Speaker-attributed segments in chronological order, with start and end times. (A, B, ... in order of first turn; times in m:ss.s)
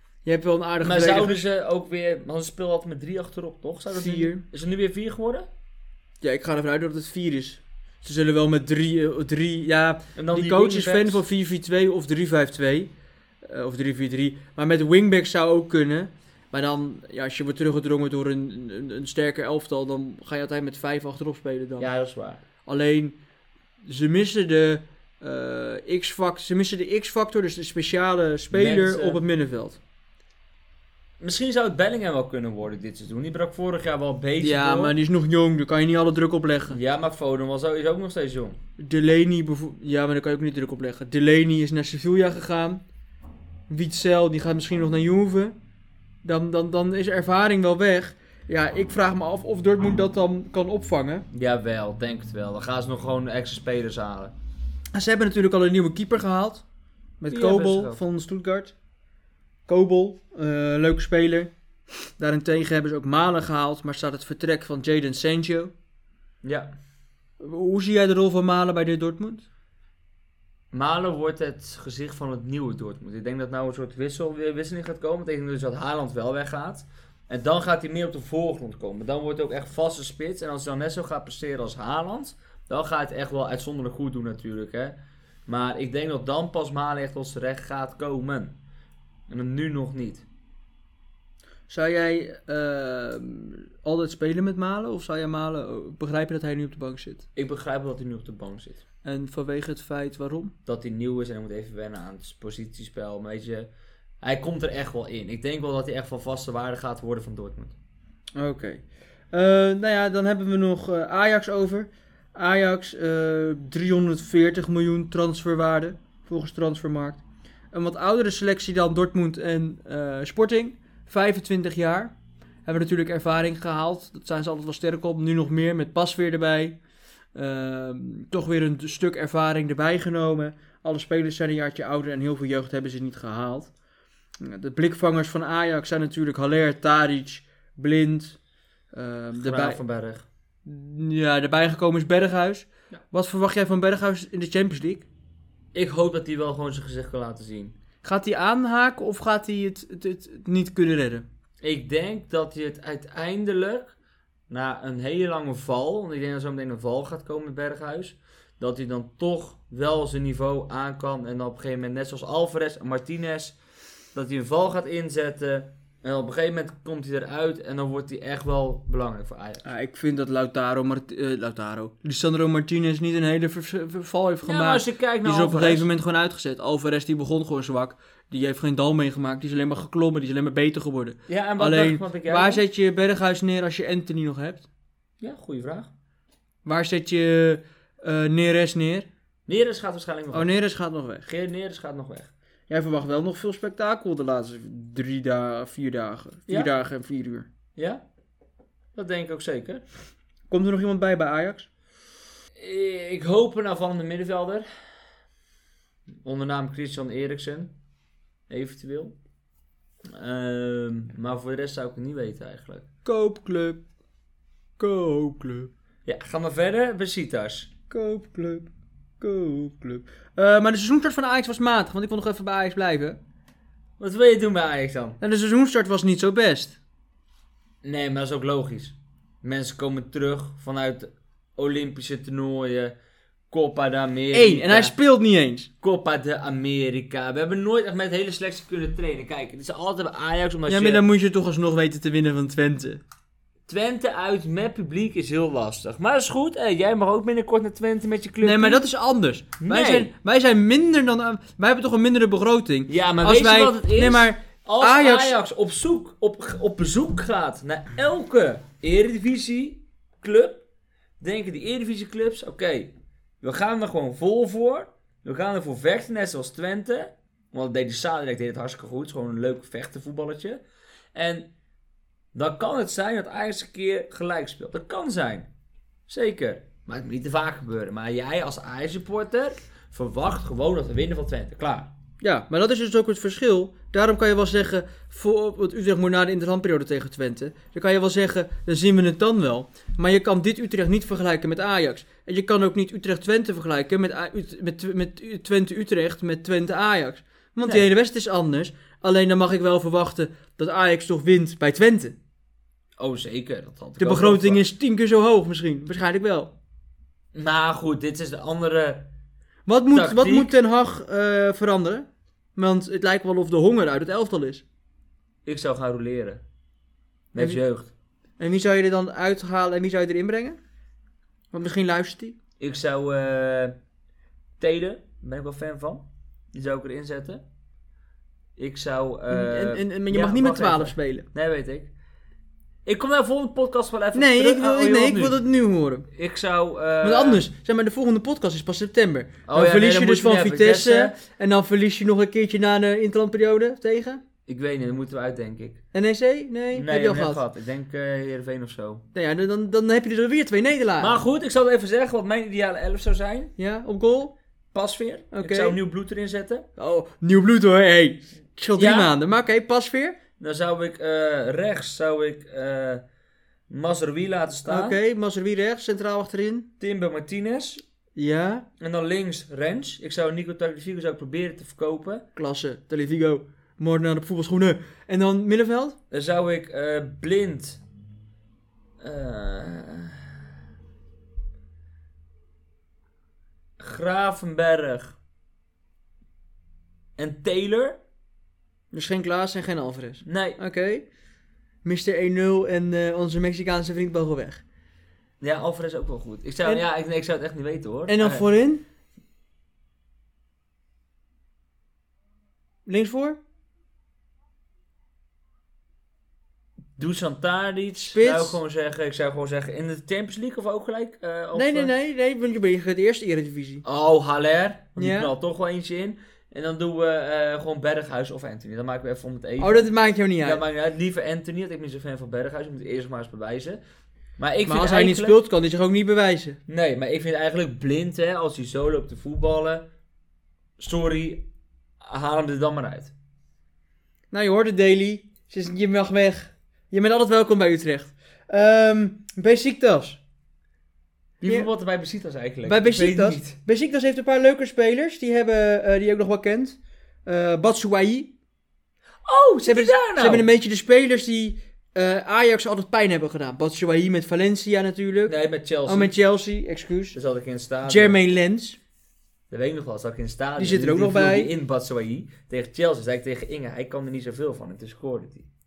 0:00.2-0:01.4 A
0:00.8-0:05.5 B
0:03.9-0:04.4 A
0:06.2-0:12.9 A
0:10.2-0:11.2 B
0:13.4-0:21.9 A
0:21.8-0:22.4 B
0:22.6-0:23.2 A
0:23.8-0:29.8 A
0:28.5-0:29.2 B
0:31.2-0:34.9 B
0:34.4-0:36.8 A
0:36.7-0:38.6 B
0:38.8-0:42.8 A
0:43.7-0:45.5 A
0:46.2-0:51.2 A
0:51.3-0:54.3 B
0:54.9-0:56.6 A
0:57.2-0:58.7 A
0:57.3-0:58.0 B
0:59.7-1:01.5 A
1:02.2-1:05.7 A
1:06.4-1:06.7 B
1:07.4-1:09.4 A
1:10.7-1:28.6 B
1:29.3-1:30.2 B
1:31.7-1:37.2 A
1:37.4-1:38.8 B
1:39.0-1:40.5 A
1:40.6-1:43.7 B
1:44.2-1:47.7 B
1:48.4-2:02.1 A
2:02.6-2:06.8 A
2:07.3-2:13.7 A
2:14.4-2:18.4 A
2:18.9-2:19.8 A
2:19.4-2:20.2 B
2:20.6-2:25.1 A
2:25.7-2:27.7 B
2:28.0-2:31.2 A
2:31.6-2:33.9 B
2:34.5-2:43.6 B
2:44.1-2:49.6 B
2:49.6-3:04.6 A
2:54.4-2:55.9 B
3:01.3-3:02.6 B
3:05.2-3:05.9 B
3:06.6-3:09.1 A
3:09.5-3:10.5 B
3:10.3-3:11.3 A
3:11.3-3:12.3 B
3:12.7-3:17.5 A
3:17.8-3:18.0 B
3:18.9-3:19.8 B
3:20.5-3:21.7 A
3:22.6-3:24.6 B
3:26.2-3:27.7 B
3:28.5-3:29.1 B
3:30.0-3:32.8 B
3:33.0-3:33.8 A
3:34.8-3:35.7 A
3:36.0-3:37.7 B
3:37.9-3:38.7 A
3:39.2-3:43.2 A
3:44.0-3:45.2 B
3:45.2-3:46.8 A
3:47.8-3:52.9 B
3:53.5-3:54.9 B
3:54.3-3:55.7 A
3:55.8-4:01.0 B
4:00.7-4:03.0 A
4:03.7-4:08.8 B
4:08.4-4:15.4 A
4:09.6-4:10.1 B
4:12.9-4:20.6 B
4:21.2-4:30.6 B
4:31.1-4:31.5 B
4:32.3-4:35.5 B
4:36.1-4:41.9 B
4:42.2-5:02.2 A
5:03.0-5:04.6 B
5:04.0-5:06.5 A
5:07.3-5:09.1 B
5:09.7-5:14.6 A
5:09.9-5:10.5 B
5:15.4-5:16.4 B
5:17.3-5:17.9 B
5:18.4-5:20.6 A
5:21.5-5:22.4 A
5:22.6-5:23.8 B
5:24.6-5:27.4 B
5:28.6-5:31.9 B
5:29.3-5:31.3 A
5:32.8-5:35.4 B
5:34.1-5:36.1 A
5:36.1-5:37.4 B
5:37.0-5:44.2 A
5:39.5-5:41.2 B
5:44.4-5:45.8 B
5:45.9-5:47.4 A
5:46.7-5:49.0 B
5:49.1-5:51.2 A
5:51.0-5:53.5 B
5:53.6-5:54.3 A
5:54.7-5:56.6 B
5:55.3-5:55.8 A
5:56.8-6:00.2 A
5:58.8-5:59.1 B
6:00.4-6:03.0 B
6:03.7-6:05.0 B
6:04.6-6:06.7 A
6:06.8-6:07.8 B
6:08.2-6:08.6 A
6:08.8-6:12.2 B
6:12.4-6:16.0 A
6:16.1-6:17.8 B
6:19.0-6:20.4 B
6:23.8-6:25.2 B
6:27.2-6:28.0 B
6:28.9-6:31.0 A
6:30.2-6:30.6 B
6:31.8-6:34.6 A
6:35.4-6:38.4 B
6:38.1-6:38.8 A
6:42.8-6:43.4 A
6:47.0-6:51.9 B
6:47.9-6:48.6 A
6:51.5-6:53.8 A
6:53.8-7:03.8 B
6:55.0-6:55.3 A
6:59.6-7:00.6 A
7:04.4-7:05.4 B
7:04.6-7:06.6 A
7:06.7-7:09.8 B
7:10.8-7:11.4 B
7:12.0-7:13.1 B
7:14.3-7:20.2 A
7:21.4-7:23.5 B
7:22.6-7:28.3 A
7:29.2-7:30.4 B
7:29.6-7:35.3 A
7:35.3-7:36.1 B
7:35.8-7:37.2 A
7:37.1-7:38.2 B
7:37.8-7:38.8 A
7:39.5-7:45.5 B
7:40.6-7:41.5 A